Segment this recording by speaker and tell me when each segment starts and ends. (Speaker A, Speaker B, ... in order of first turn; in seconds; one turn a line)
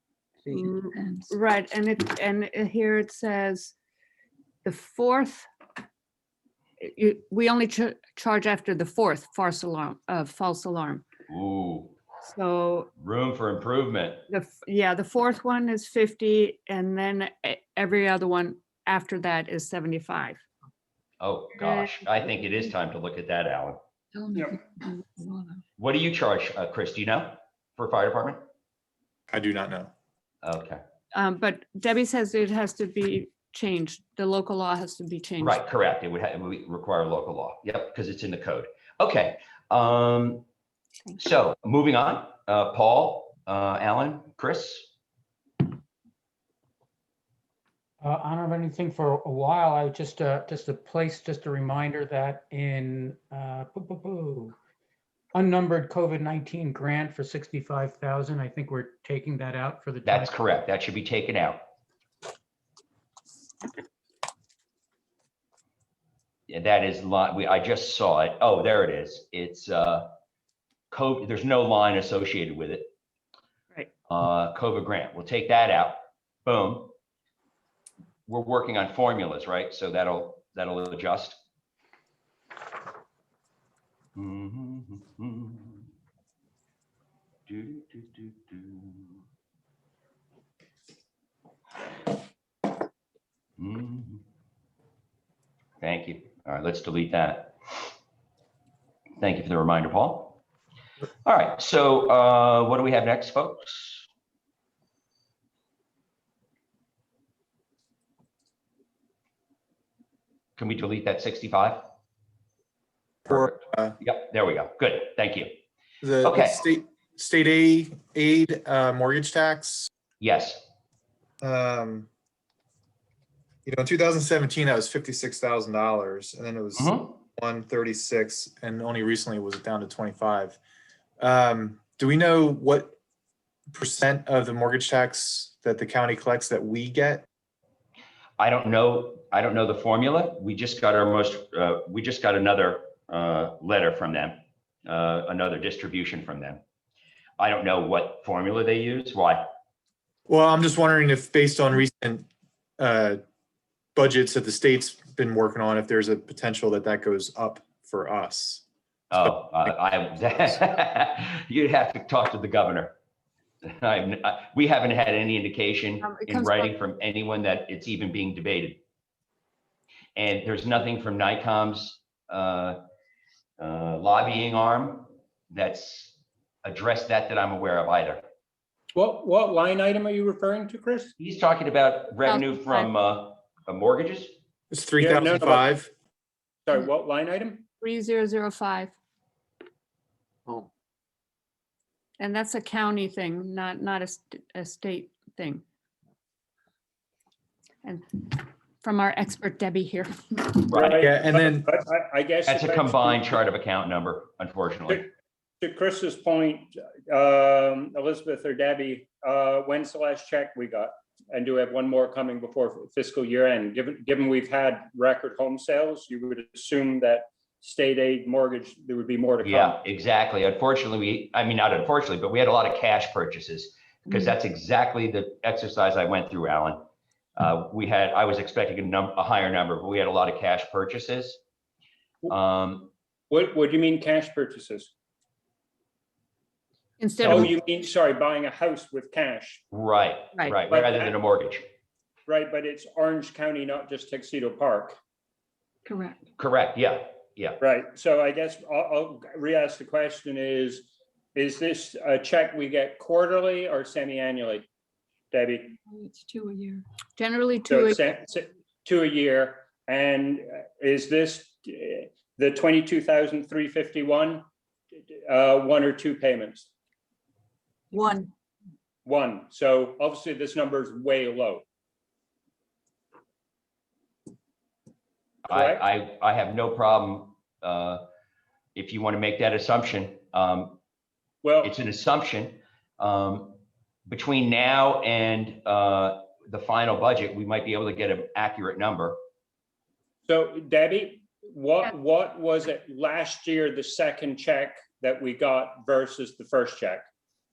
Speaker A: 0.5-3.8
Speaker A: 4.6-5.5
Speaker A: 6.8-11.0
Speaker B: 11.3-11.9
Speaker A: 12.2-12.9
Speaker B: 13.0-14.2
Speaker A: 14.3-20.4
Speaker B: 21.2-23.8
Speaker C: 24.2-25.3
Speaker B: 25.8-28.5
Speaker D: 29.3-29.9
Speaker B: 30.4-30.8
Speaker A: 31.1-35.6
Speaker B: 35.4-40.5
Speaker B: 41.2-44.9
Speaker E: 48.0-54.5
Speaker E: 55.3-60.4
Speaker B: 60.0-61.6
Speaker B: 66.5-70.1
Speaker B: 70.9-72.9
Speaker B: 74.1-76.9
Speaker B: 78.3-81.4
Speaker B: 84.2-85.9
Speaker B: 87.5-89.2
Speaker B: 93.6-94.2
Speaker B: 95.8-97.8
Speaker B: 99.2-100.4
Speaker B: 101.2-104.1
Speaker B: 110.6-111.9
Speaker D: 113.3-114.0
Speaker B: 113.3-115.5
Speaker D: 116.0-119.9
Speaker B: 116.2-116.6
Speaker B: 120.2-120.7
Speaker D: 121.4-122.1
Speaker D: 123.7-130.6
Speaker B: 126.8-127.2
Speaker D: 131.2-133.0
Speaker D: 133.7-137.3
Speaker B: 138.4-146.6
Speaker B: 147.4-149.5
Speaker D: 150.3-152.3
Speaker D: 152.8-153.2
Speaker D: 154.0-158.6
Speaker B: 159.1-163.0
Speaker B: 163.7-168.8
Speaker A: 166.0-166.7
Speaker B: 170.2-172.8
Speaker B: 173.6-178.2
Speaker F: 178.9-181.1
Speaker B: 181.2-184.3
Speaker A: 182.2-182.9
Speaker D: 184.7-185.9
Speaker F: 185.0-185.7
Speaker F: 186.7-187.6
Speaker A: 187.8-188.9
Speaker A: 192.2-195.6
Speaker A: 197.8-200.7
Speaker B: 200.7-201.0
Speaker F: 200.7-203.4
Speaker D: 201.0-201.7
Speaker B: 202.5-205.1
Speaker F: 205.6-219.8
Speaker B: 219.4-226.8
Speaker B: 227.4-231.4
Speaker B: 232.3-232.9
Speaker F: 233.3-234.9
Speaker A: 237.0-237.5
Speaker F: 237.2-239.6
Speaker B: 239.7-241.7
Speaker F: 240.7-241.2
Speaker F: 242.3-245.0
Speaker C: 245.9-246.2
Speaker B: 246.4-247.6
Speaker F: 247.6-254.7
Speaker F: 255.3-255.8
Speaker C: 255.9-256.8
Speaker A: 257.2-258.0
Speaker F: 257.7-264.4
Speaker F: 265.1-266.7
Speaker C: 267.9-268.2
Speaker F: 269.1-271.6
Speaker F: 275.5-275.8
Speaker B: 275.5-278.0
Speaker B: 278.8-280.8
Speaker F: 281.4-281.7
Speaker B: 281.6-289.2
Speaker F: 290.3-297.1